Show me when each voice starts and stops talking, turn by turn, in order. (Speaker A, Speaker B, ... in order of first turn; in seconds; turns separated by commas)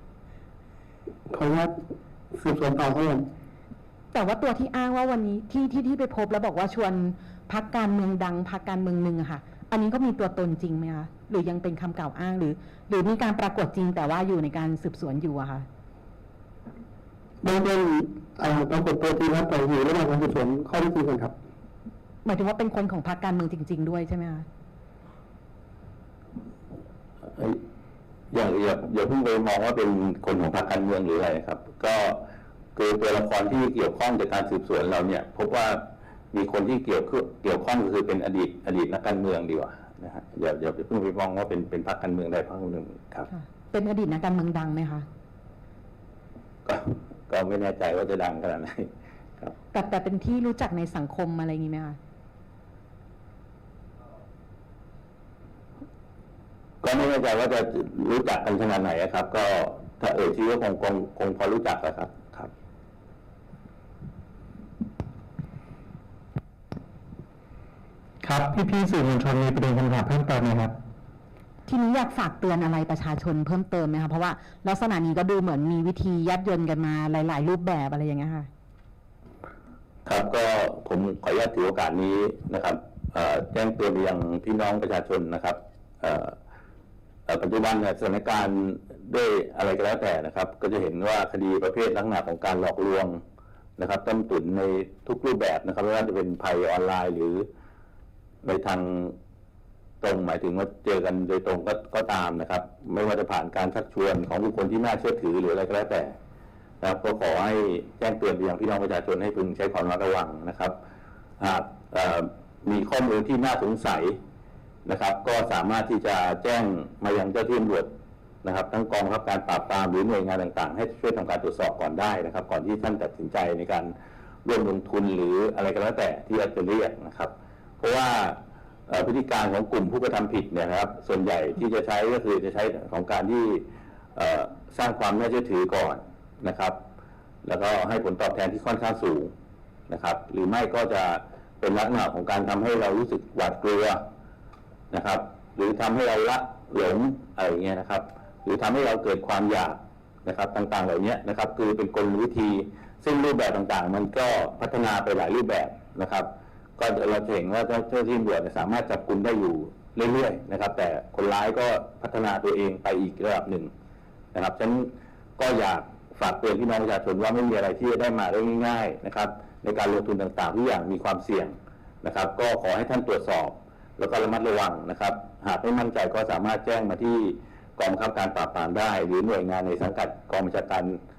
Speaker A: 1.3-1.7, Speaker A: 2.3-3.2, Speaker B: 4.1-15.7, Speaker A: 17.4-21.3, Speaker B: 22.2-24.4, Speaker C: 28.3-32.2, Speaker C: 32.8-43.3, Speaker B: 43.3-45.0, Speaker C: 46.6-49.5, Speaker B: 49.7-52.0, Speaker C: 56.8-62.5, Speaker D: 68.2-70.7, Speaker B: 71.7-78.5, Speaker C: 80.0-86.3, Speaker C: 87.3-93.2, Speaker C: 93.8-97.5, Speaker C: 98.4-99.2, Speaker C: 100.0-106.1, Speaker C: 106.8-110.7, Speaker C: 111.4-114.2, Speaker C: 114.8-117.9, Speaker C: 118.4-136.8, Speaker C: 137.4-139.3, Speaker C: 139.9-144.0, Speaker C: 144.9-163.7, Speaker C: 164.3-181.0